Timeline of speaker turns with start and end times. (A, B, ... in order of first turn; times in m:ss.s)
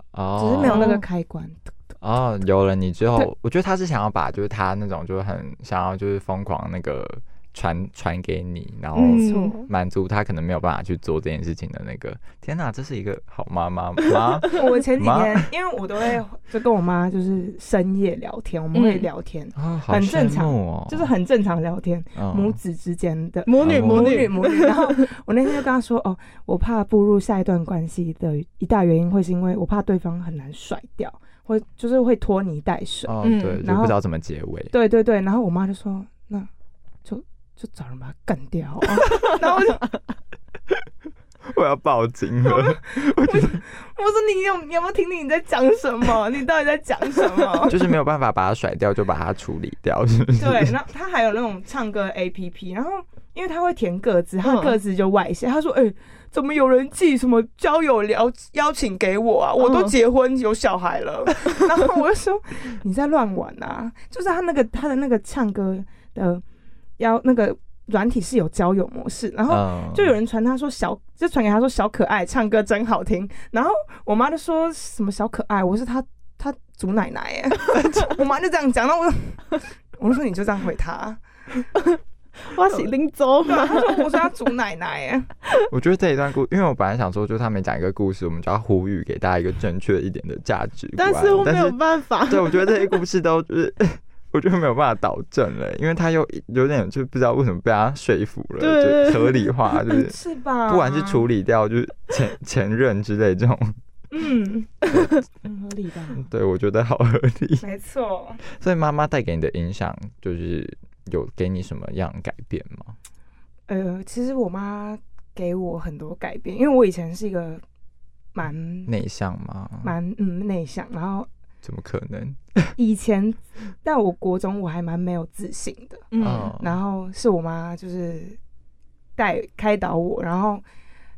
0:00.1-0:01.0 A
0:00.4-0:01.7 B
0:00.6-0:01.0 C
0:02.0-0:15.4 A
0:09.0-0:09.5 C
0:09.0-0:09.7 B
0:14.5-0:34.0 B
0:18.7-0:19.1 C
0:19.5-0:21.1 A
0:22.2-0:22.6 A
0:23.5-0:25.0 C
0:23.6-0:24.4 A
0:33.0-0:34.7 A
0:33.2-0:33.6 C
0:34.7-0:36.5 B
0:37.0-0:39.9 B
0:41.4-0:43.6 A
0:42.4-0:47.8 B
0:47.7-0:50.7 A
0:50.4-1:06.4 B
0:54.4-0:54.7 C
0:59.6-0:59.9 C
1:07.0-1:21.2 B
1:09.5-1:10.1 A
1:21.8-1:24.2 C
1:23.4-1:25.3 B
1:25.7-1:43.8 A
1:31.0-1:33.0 C
1:38.6-1:40.0 C
1:40.0-1:41.2 B
1:44.1-1:46.3 B
1:44.9-1:45.2 A
1:46.1-1:47.6 A
1:47.6-1:48.4 B
1:48.4-1:53.0 A
1:53.7-1:57.6 B
1:58.3-1:58.9 B
1:58.9-1:59.9 A
1:59.8-2:01.3 B
2:01.6-2:02.7 A
2:02.8-2:08.4 B
2:06.1-2:06.5 C
2:06.2-2:06.8 A
2:09.2-2:10.6 B